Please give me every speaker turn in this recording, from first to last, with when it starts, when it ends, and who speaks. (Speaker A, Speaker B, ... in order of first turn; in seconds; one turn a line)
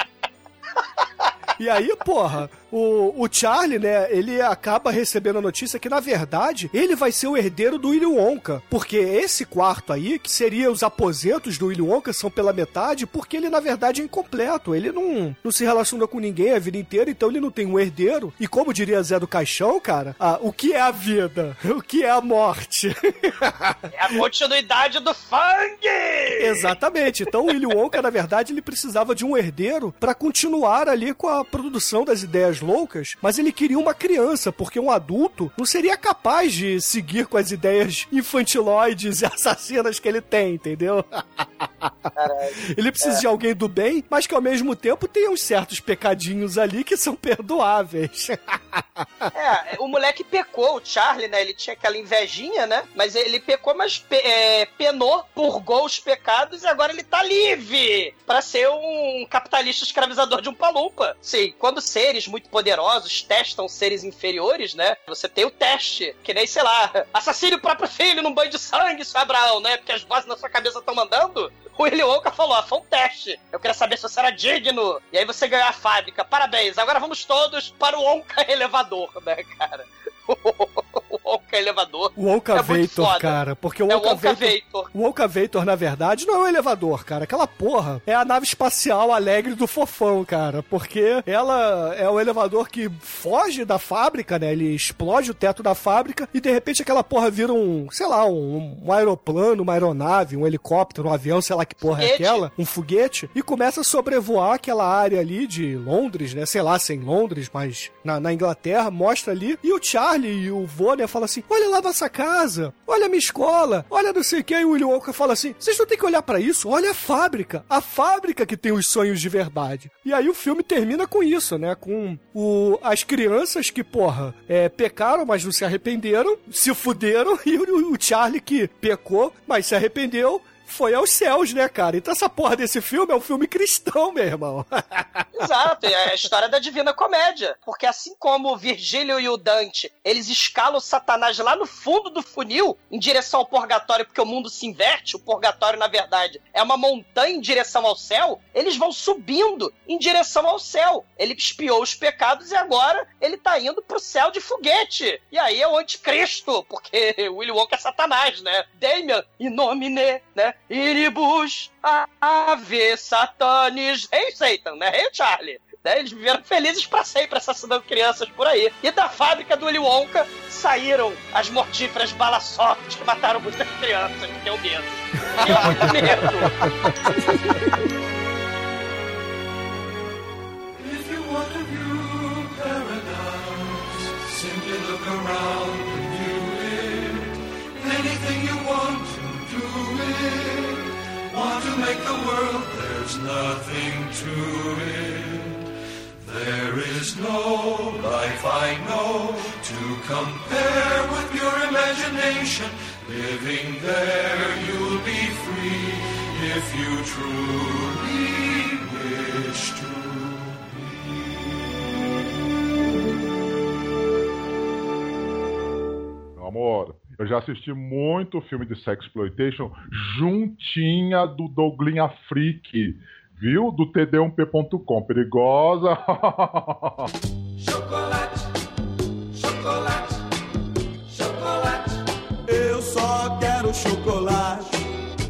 Speaker A: 1.6-23.8
Speaker B: 23.9-26.7
Speaker A: 26.4-41.9
Speaker B: 42.2-43.2
Speaker A: 42.7-49.3
Speaker B: 49.3-83.4
Speaker A: 82.2-135.3
Speaker B: 83.9-84.9
Speaker B: 102.0-102.5
Speaker B: 135.4-176.5
Speaker A: 175.4-176.3
Speaker C: 180.8-195.7
Speaker C: 196.2-211.5
Speaker D: 216.4-227.0
Speaker E: 227.7-228.1
Speaker E: 229.4-229.9
Speaker E: 231.2-231.7
Speaker E: 232.5-234.7